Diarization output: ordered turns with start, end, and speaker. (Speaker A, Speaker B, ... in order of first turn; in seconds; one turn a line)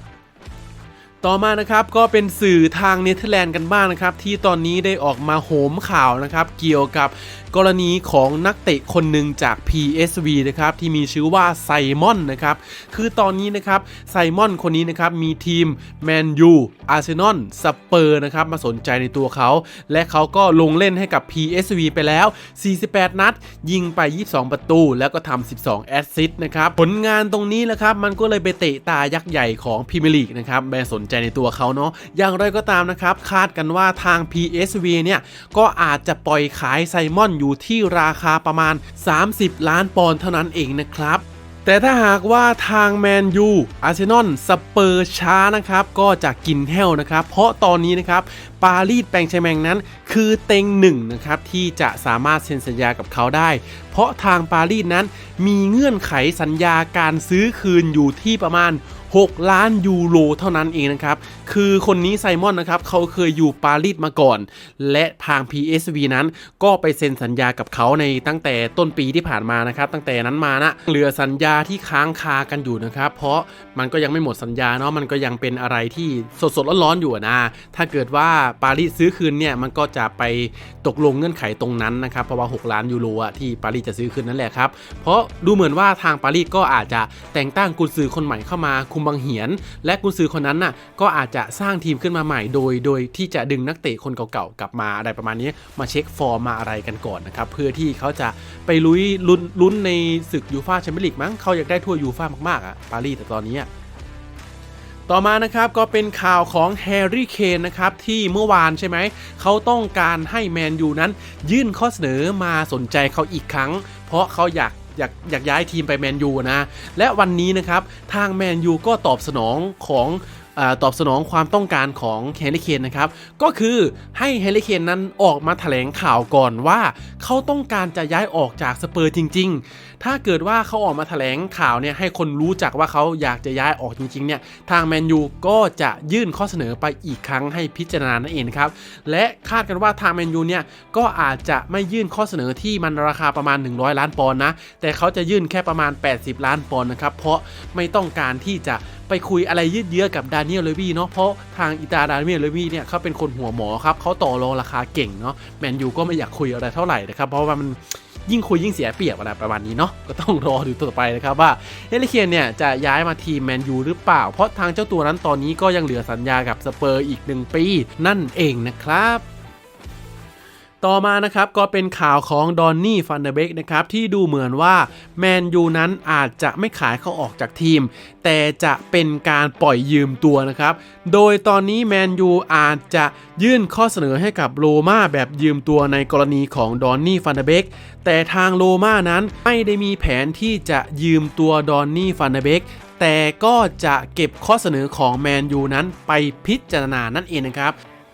Speaker A: 1.2-103.7
Speaker A: 105.1-169.2
Speaker A: 170.8-197.8